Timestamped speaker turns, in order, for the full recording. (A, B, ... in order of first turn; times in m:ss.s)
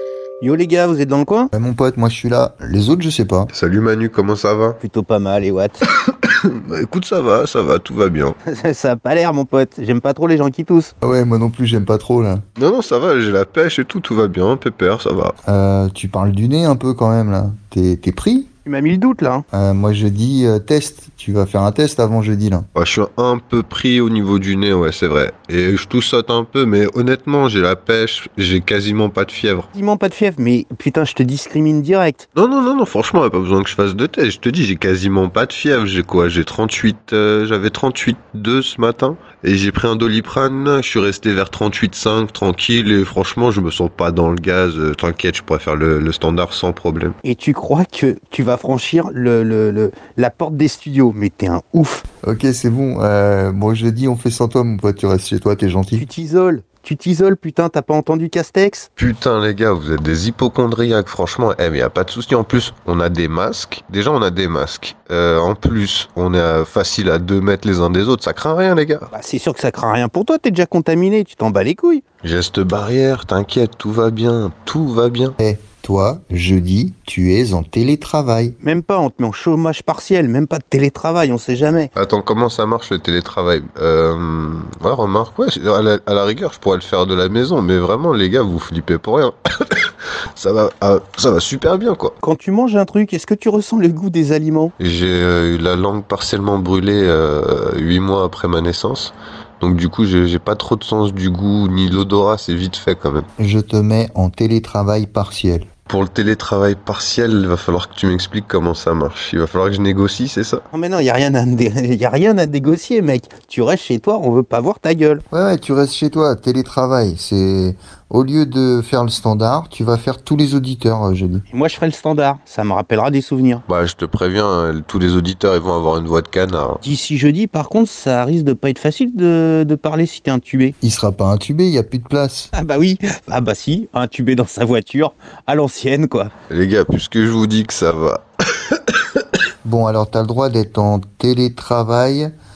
0:00.4-0:01.5 A
0:01.5-0:03.5 B
0:03.5-0:04.8 C
0:04.8-0:05.8 A
0:06.2-0:08.4 C
0:08.4-0:10.9 A
0:11.0-0:12.4 B
0:12.6-0:15.3 C
0:15.4-0:18.5 B
0:18.6-0:19.4 A
0:19.5-0:22.7 B
0:22.7-0:29.7 C
0:29.7-0:32.2 A
0:32.4-0:47.2 C
0:47.2-0:52.0 A
0:52.2-0:56.1 B
0:56.0-0:58.9 A
0:59.0-1:09.1 C
1:09.1-1:12.0 A
1:12.2-1:15.4 C
1:15.4-1:18.6 B
1:18.6-1:21.9 A
1:21.9-1:32.1 C
1:32.2-1:34.7 A
1:34.8-1:43.3 C
1:43.4-1:45.7 B
1:45.9-1:50.6 C
1:50.7-1:55.2 A
1:55.3-2:01.4 B
2:01.5-2:03.6 A
2:03.7-2:06.8 C
2:06.8-2:10.7 A
2:10.8-2:12.5 B
2:12.5-2:16.3 A
2:16.5-2:19.2 C
2:19.6-2:22.3 B